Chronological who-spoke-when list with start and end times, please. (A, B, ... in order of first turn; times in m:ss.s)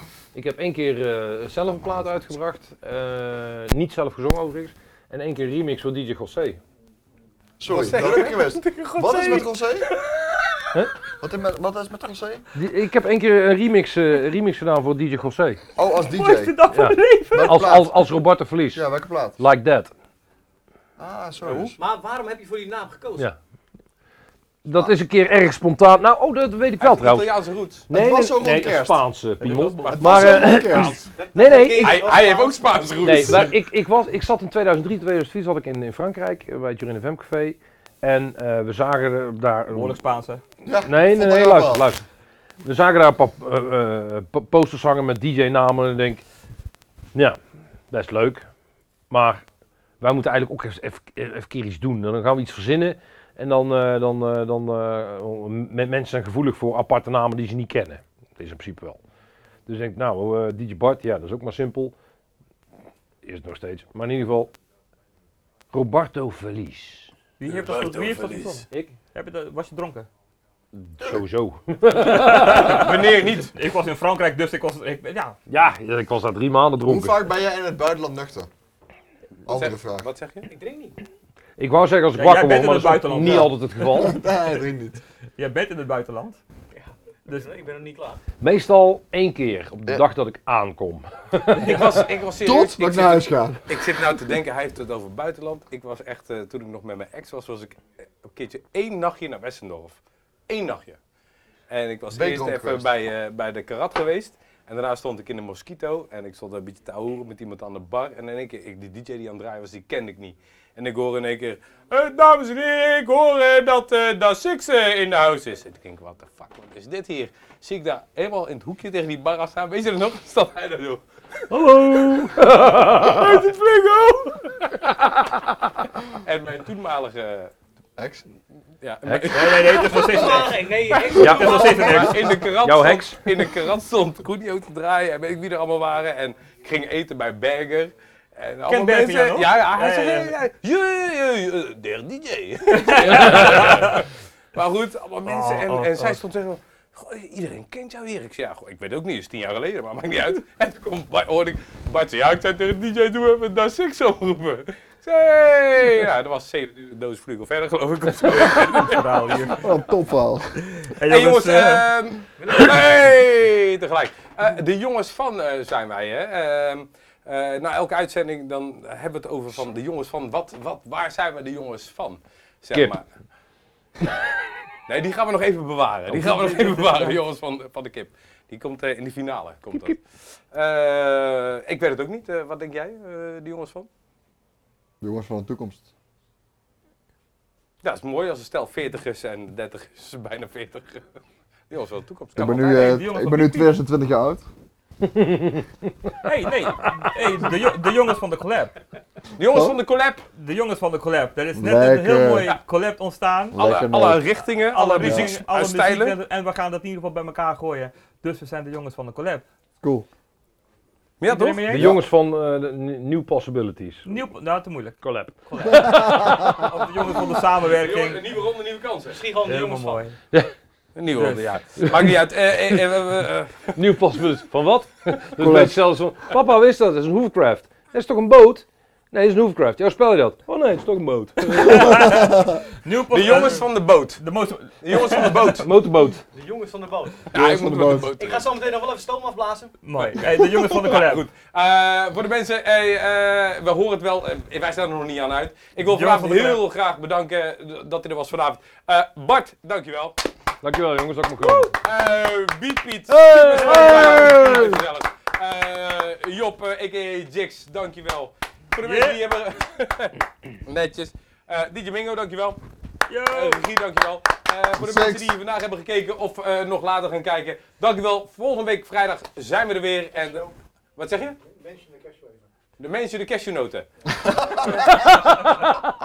0:00.3-0:06.6 A
0:07.6-0:09.9 B
0:07.7-0:10.1 C
0:11.2-0:12.4 B
0:12.5-0:15.6 A
0:15.8-0:16.6 B
0:16.1-0:17.7 D
0:16.7-0:18.8 A
0:17.3-0:18.2 B
0:18.7-0:19.4 B
0:19.4-0:19.9 A
0:21.0-0:21.7 B
0:21.4-0:21.7 C
0:21.7-0:23.3 E
0:24.6-0:27.3 A
0:26.8-0:27.8 C
0:27.9-0:32.1 A
0:27.9-0:29.0 B
0:29.4-0:30.4 C
0:29.9-0:31.1 B
0:31.1-0:33.3 E
0:31.7-0:33.6 C
0:33.0-0:40.0 A
0:39.7-0:40.4 D
0:40.6-0:41.9 B
0:40.8-0:42.0 A
0:42.6-0:46.2 A
0:47.9-0:48.4 A
0:49.1-0:49.4 A
0:50.0-0:59.0 A
0:59.7-1:01.9 A
1:03.2-1:04.5 A
1:05.7-1:07.1 A
1:07.4-1:10.1 D
1:07.5-1:08.4 C
1:07.6-1:08.9 A
1:10.7-1:12.9 A
1:12.0-1:15.4 D
1:12.3-1:13.5 C
1:15.5-1:17.2 A
1:16.9-1:18.5 B
1:19.4-1:20.1 B
1:19.4-1:20.5 C
1:20.5-1:21.0 E
1:21.6-1:24.2 A
1:22.1-1:23.5 D
1:23.2-1:25.0 B
1:25.4-1:26.4 D
1:26.7-1:28.2 E
1:28.4-1:31.9 A
1:31.5-1:32.0 D
1:31.6-1:41.0 C
1:32.4-1:33.6 B
1:41.7-2:04.7 C
1:42.1-1:42.9 B
2:01.5-2:03.4 A
2:04.9-2:05.4 A
2:06.1-2:07.5 C
2:08.0-2:08.2 B
2:08.8-2:39.0 C
2:09.0-2:09.5 A
2:09.3-2:10.6 D
2:09.9-2:12.2 E
2:11.1-2:12.3 D
2:11.2-2:11.8 A
2:12.4-2:13.3 A
2:18.6-2:20.4 D
2:22.7-2:24.1 D
2:25.2-2:26.2 D
2:38.7-2:39.6 D
2:39.6-2:40.6 B
2:40.6-2:41.8 D
2:41.1-2:53.1 C
2:42.4-2:42.8 E
2:54.9-3:00.0 C
2:56.1-2:57.2 D
2:59.7-3:00.0 A
3:00.5-3:03.9 C
3:05.0-3:05.9 B
3:07.8-3:11.0 C
3:11.7-3:12.9 C
3:12.4-3:14.4 B
3:12.4-3:13.7 D
3:15.0-3:15.6 A
3:16.2-3:18.7 D
3:19.4-3:20.3 C
3:19.5-3:19.8 B
3:20.4-3:23.6 D
3:21.6-3:22.5 B
3:23.5-3:24.3 B
3:23.6-3:26.2 C
3:24.7-3:29.4 D
3:25.0-3:25.3 B
3:29.8-3:30.1 B
3:31.2-3:31.8 C
3:31.2-3:31.9 D
3:31.7-3:34.1 A
3:31.7-3:32.0 B
3:34.0-3:35.9 D
3:35.0-3:36.6 A
3:36.6-3:38.2 D
3:37.6-3:39.3 C
3:39.1-3:40.0 E
3:39.4-3:40.1 D
3:40.9-3:43.7 C
3:41.1-3:41.5 D
3:41.8-3:42.1 A
3:43.7-3:52.3 A
3:45.4-3:45.8 B
3:51.6-3:52.0 C
3:51.6-3:55.6 D
3:53.1-3:54.2 C
3:54.8-3:55.7 C
3:55.6-3:56.2 A
3:56.3-3:57.3 E
3:57.3-3:58.6 C
3:57.3-3:58.1 B
3:58.2-3:59.7 E
3:59.8-4:01.2 D
4:00.1-4:10.2 C
4:05.8-4:06.6 D
4:10.6-4:11.7 A
4:11.4-4:11.7 D
4:11.7-4:22.6 C
4:13.1-4:14.8 A
4:13.5-4:14.2 D
4:18.8-4:19.2 D
4:23.1-4:23.6 D
4:23.3-4:31.4 C
4:24.8-4:25.3 B
4:31.6-4:32.1 E
4:32.8-4:33.9 C
4:34.2-4:34.6 B
4:34.8-4:35.8 A